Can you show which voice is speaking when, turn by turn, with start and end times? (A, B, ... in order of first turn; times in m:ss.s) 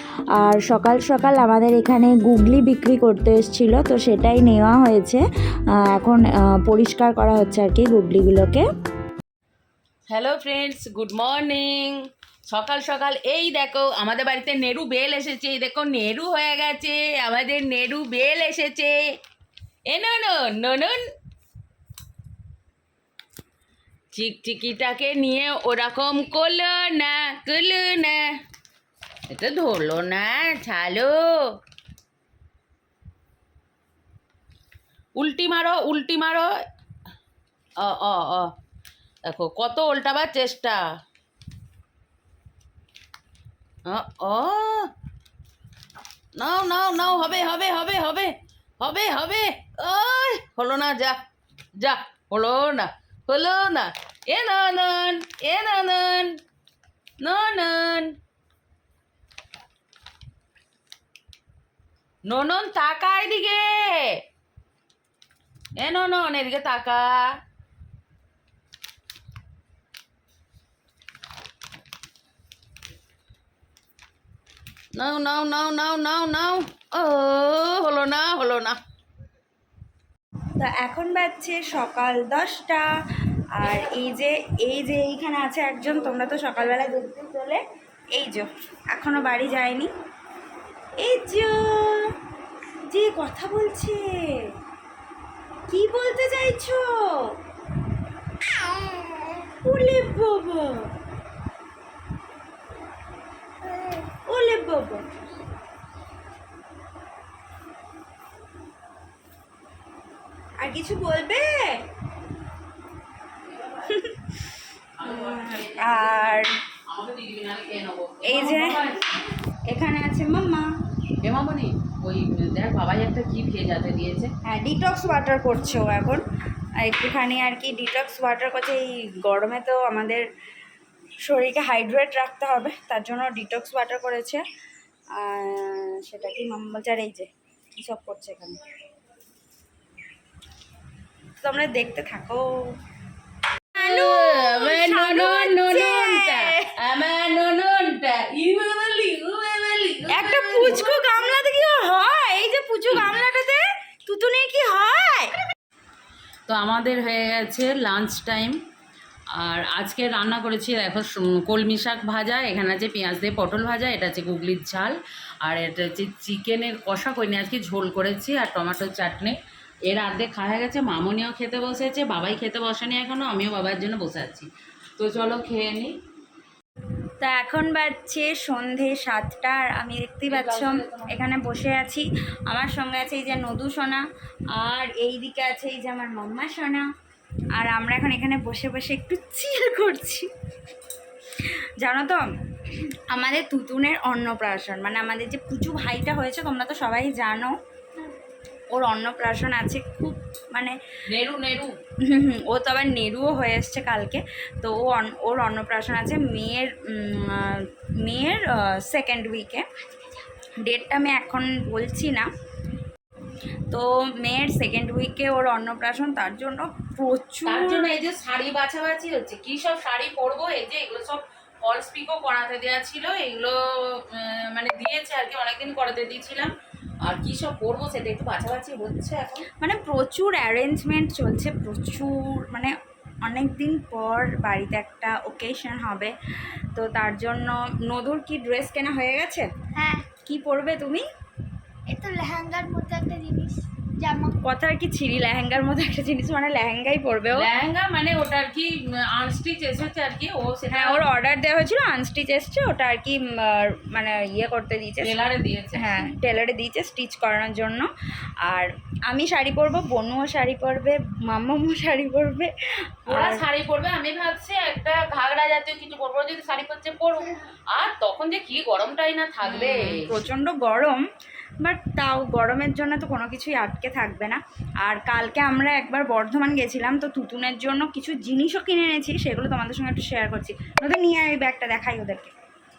0:00.4-0:05.2 A
0:05.8-0:08.7 A
0:10.1-0:19.1 B
0:19.9-0:21.0 B
0:24.1-0:28.3 B
0:29.3-0:31.6 B
0:35.2-0:36.5 B
0:37.8-0:38.5 B
0:39.3-0:40.8 B
0:43.9-0:44.9 B
0:46.4-0:51.2 B
0:51.8-0:56.4 B
0:57.2-0:58.2 B
1:02.2-1:04.2 B
1:05.8-1:07.4 B
1:15.0-1:18.8 B
1:20.6-1:22.9 A
1:23.6-1:27.6 A
1:26.1-1:27.3 B
1:28.2-1:29.9 A
1:31.0-1:32.1 A
1:32.9-1:34.5 A
1:35.7-1:37.3 A
1:39.5-1:40.9 A
1:44.3-1:45.1 A
1:50.6-1:51.8 A
1:53.5-1:54.0 B
1:53.9-1:56.5 A
1:55.0-1:59.1 B
1:58.2-1:58.9 A
1:59.7-2:00.7 A
2:01.2-2:04.3 B
2:04.4-2:06.2 A
2:06.8-2:10.3 A
2:11.2-2:14.4 A
2:15.2-2:18.6 A
2:21.4-2:22.4 A
2:23.7-2:31.3 B
2:23.8-2:26.7 A
2:30.1-2:35.3 A
2:36.5-2:38.6 B
2:39.3-2:56.0 B
2:57.2-3:04.0 A
3:00.3-3:01.1 B
3:04.6-3:06.8 A
3:07.6-3:10.3 A
3:11.8-3:12.2 A
3:13.1-3:17.6 A
3:18.7-3:20.8 A
3:21.1-3:21.8 B
3:22.0-3:29.6 A
3:30.6-3:32.3 A
3:33.7-3:38.0 A
3:37.5-3:49.5 B
3:49.6-3:52.7 A
3:53.3-3:56.1 A
3:56.8-3:59.5 A
3:59.8-4:00.0 C
4:00.3-4:01.1 A
4:01.9-4:04.4 C
4:04.4-4:07.5 A
4:07.3-4:11.0 B
4:10.7-4:15.2 A
4:15.0-4:16.1 B
4:15.8-4:17.9 A
4:18.5-4:22.5 A
4:23.0-4:23.4 A
4:23.1-4:30.1 B
4:29.4-4:31.0 A
4:31.6-4:42.3 A